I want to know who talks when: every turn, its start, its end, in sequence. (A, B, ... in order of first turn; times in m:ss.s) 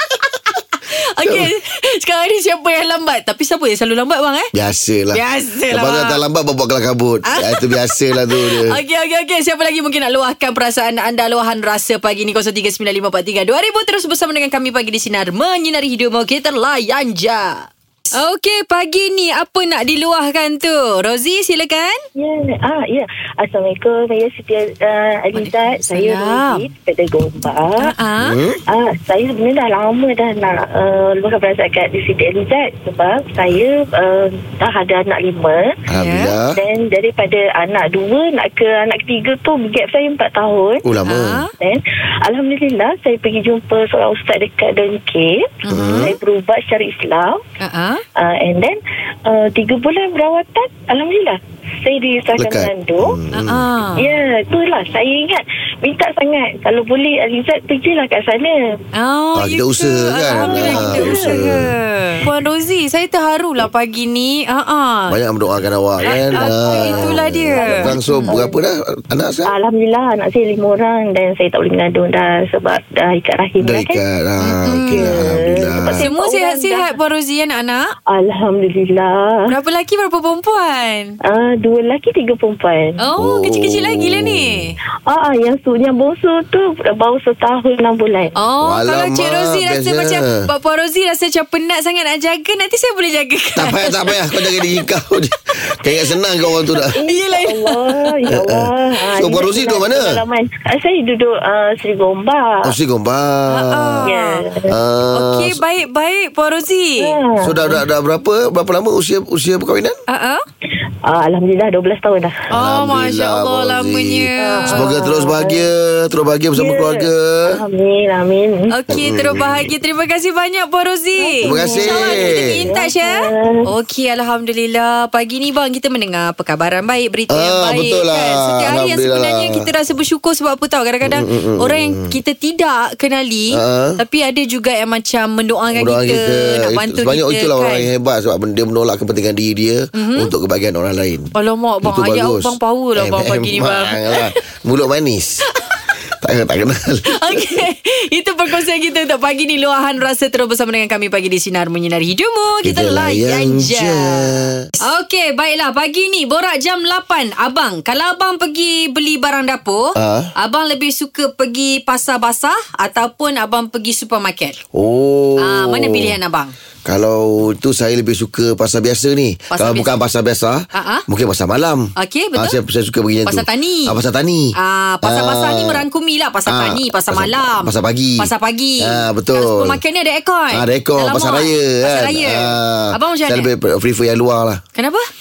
0:01.0-0:04.5 A
0:01.2-0:01.5 B
0:04.5-0:08.8 B
0:05.1-0:06.2 A
0:07.3-0:22.0 A
0:22.2-0:27.9 C
0:25.4-0:26.6 A
0:27.8-0:28.4 A
0:28.2-0:28.6 B
0:28.7-0:35.7 C
0:35.9-0:36.6 B
0:36.0-0:36.3 A
0:36.5-0:40.8 C
0:40.8-0:41.4 B
0:41.1-0:41.5 A
0:41.6-0:47.4 C
0:45.7-0:46.1 A
0:45.7-0:46.1 B
0:47.6-0:48.0 A
0:48.2-0:53.2 C
0:52.4-0:53.7 B
0:53.4-0:54.1 A
0:54.0-0:58.6 C
0:59.0-1:05.2 A
0:59.3-1:01.7 B
1:00.3-1:01.4 C
1:05.1-1:09.5 B
1:06.1-1:08.4 A
1:06.2-1:08.6 C
1:09.5-1:14.0 C
1:13.6-1:16.1 B
1:14.4-1:15.2 A
1:14.9-1:16.9 C
1:16.0-1:17.9 A
1:18.1-1:19.4 C
1:19.5-1:21.2 A
1:21.2-1:23.0 C
1:23.0-1:24.8 A
1:23.2-1:24.7 B
1:25.1-1:28.4 C
1:28.4-1:34.7 A
1:28.6-1:30.4 B
1:33.6-1:37.0 B
1:36.8-1:38.1 A
1:36.9-1:42.7 C
1:38.3-1:40.2 B
1:42.6-1:44.1 B
1:43.5-1:44.4 A
1:44.0-1:44.7 C
1:44.7-1:45.6 B
1:45.1-1:47.2 A
1:47.0-1:47.8 C
1:47.4-1:50.0 B
1:50.1-1:50.4 A
1:51.1-1:52.4 C
1:52.5-1:57.6 B
1:52.5-1:54.9 A
1:54.4-1:55.6 C
1:56.6-1:58.8 C
1:58.7-2:17.9 A
1:58.9-1:59.7 B
2:01.2-2:03.6 C
2:01.4-2:02.6 B
2:07.3-2:09.7 B
2:11.0-2:12.2 B
2:13.5-2:14.0 B
2:15.7-2:25.5 B
2:19.9-2:20.3 A
2:21.4-2:24.3 A
2:26.2-2:27.5 B
2:27.1-2:44.6 A
2:32.6-2:34.7 B
2:40.0-2:40.3 B
2:44.7-2:46.2 B
2:45.4-2:46.5 A
2:46.8-2:55.8 B
2:49.5-2:49.9 A
2:50.7-2:51.0 A
2:52.0-2:52.6 A
2:53.3-2:54.0 A
2:54.6-3:03.5 A
2:56.5-2:59.8 B
3:00.5-3:04.6 B
3:04.8-3:05.1 A